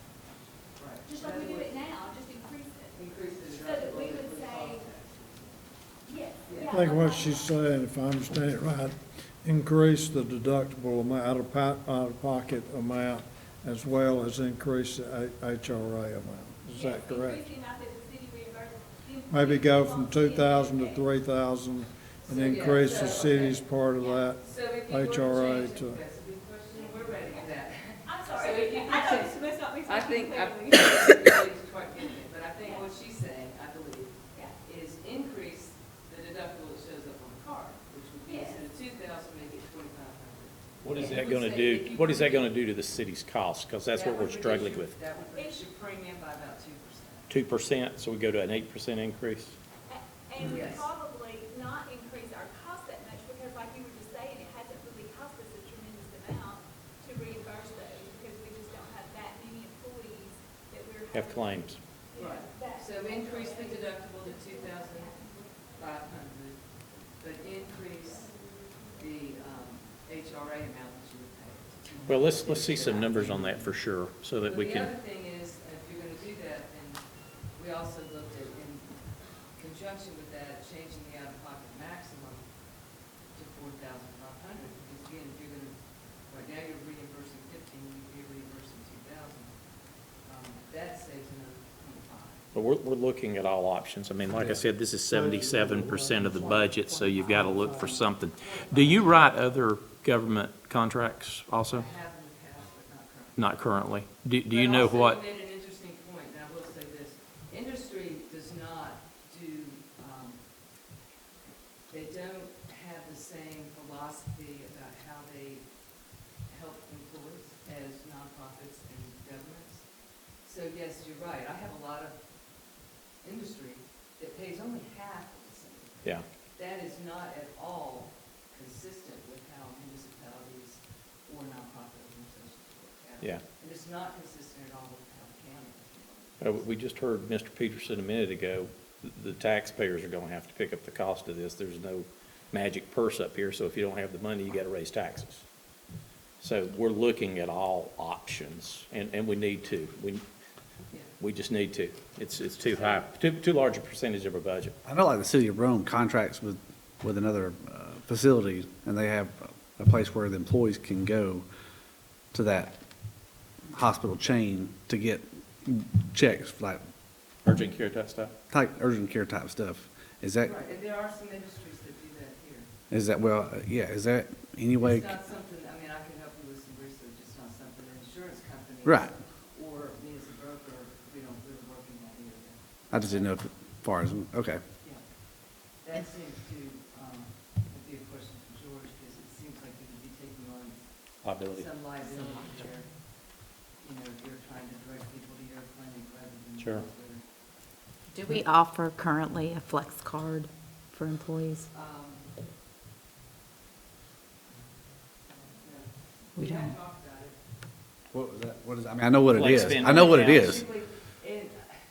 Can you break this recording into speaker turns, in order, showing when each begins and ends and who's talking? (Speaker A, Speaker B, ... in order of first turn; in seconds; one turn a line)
Speaker A: 0.8-1.8
Speaker B: 1.0-4.8
Speaker A: 2.9-5.7
Speaker B: 6.0-7.5
Speaker A: 6.5-6.8
Speaker C: 6.7-17.4
Speaker B: 16.7-21.1
Speaker C: 19.3-26.0
Speaker A: 22.2-23.7
Speaker B: 24.0-24.3
Speaker A: 24.4-42.5
Speaker B: 26.7-27.5
Speaker B: 28.0-31.4
Speaker B: 38.2-38.6
Speaker D: 40.8-45.0
Speaker A: 43.9-47.3
Speaker B: 45.3-45.6
Speaker D: 47.3-49.6
Speaker B: 49.9-65.8
Speaker A: 50.4-50.9
Speaker D: 61.1-61.8
Speaker A: 62.1-66.6
Speaker A: 67.2-68.4
Speaker A: 68.9-73.6
Speaker D: 72.1-74.9
Speaker A: 74.4-77.0
Speaker A: 77.5-78.9
Speaker A: 79.5-82.4
Speaker A: 83.3-89.5
Speaker A: 90.2-92.4
Speaker D: 92.5-101.8
Speaker C: 95.1-98.0
Speaker A: 98.4-99.4
Speaker A: 101.7-103.5
Speaker D: 103.3-105.2
Speaker A: 104.5-110.4
Speaker A: 111.9-115.7
Speaker A: 116.5-119.9
Speaker A: 120.4-122.2
Speaker A: 123.2-136.7
Speaker D: 136.4-145.4
Speaker D: 146.4-150.2
Speaker D: 151.2-154.8
Speaker E: 154.8-161.4
Speaker E: 162.3-162.8
Speaker E: 163.7-166.8
Speaker D: 167.4-168.3
Speaker E: 168.5-170.5
Speaker A: 170.4-172.7
Speaker E: 172.9-175.1
Speaker A: 174.8-182.6
Speaker E: 178.8-179.1
Speaker E: 182.9-184.6
Speaker A: 185.8-190.8
Speaker D: 191.2-191.7
Speaker A: 191.4-192.9
Speaker A: 193.8-197.2
Speaker D: 196.6-196.8
Speaker F: 198.1-201.6
Speaker A: 201.7-202.3
Speaker A: 205.5-207.4
Speaker F: 206.3-206.7
Speaker E: 208.1-210.6
Speaker D: 209.3-210.6
Speaker A: 209.5-211.7